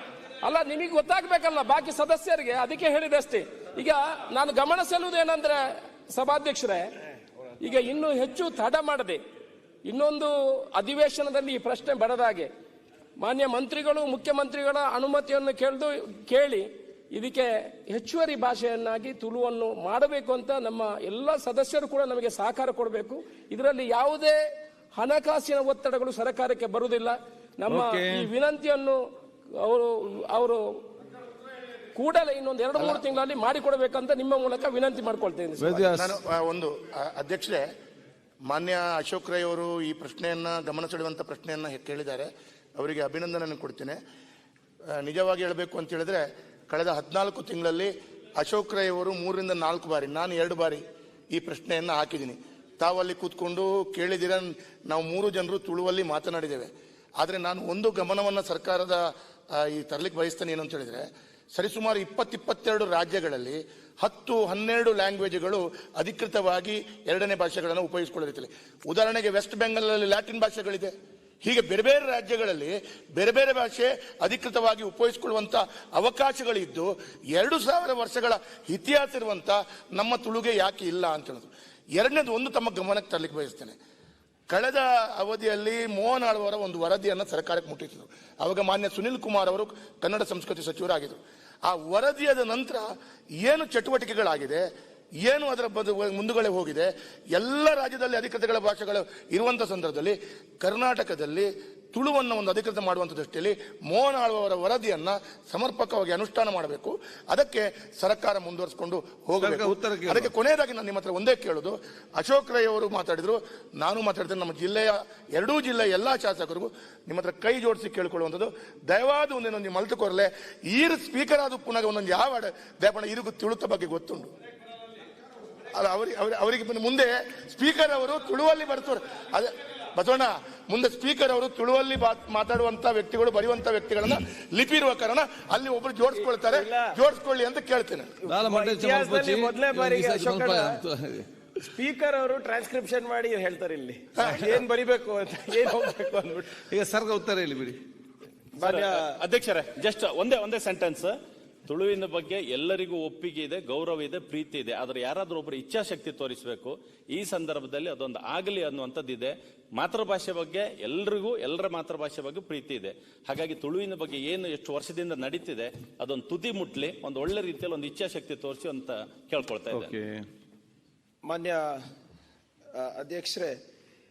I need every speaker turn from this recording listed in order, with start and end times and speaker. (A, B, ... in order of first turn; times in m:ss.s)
0:00.4-0:06.9 A
0:07.6-0:09.2 A
0:09.8-0:12.5 A
0:13.2-0:24.4 A
0:25.0-0:29.0 A
0:27.7-0:28.3 B
0:29.6-0:30.7 A
0:32.0-0:36.0 A
0:35.6-0:36.2 B
0:35.9-0:37.7 C
0:38.5-0:44.0 C
0:45.0-0:59.0 C
0:59.6-1:10.9 C
1:11.4-1:23.8 C
1:24.5-1:32.9 C
1:33.4-1:34.6 C
1:35.2-2:04.3 C
1:49.4-1:50.3 B
2:05.8-2:18.3 C
2:16.1-2:17.0 D
2:18.2-2:20.8 D
2:18.3-2:21.3 B
2:21.6-2:26.6 D
2:24.2-2:24.5 C
2:26.7-2:27.8 B
2:28.6-2:29.2 D
2:28.6-2:31.2 E
2:31.7-2:49.9 E
2:49.7-2:50.2 B
2:51.3-2:51.7 D
2:52.8-2:53.6 D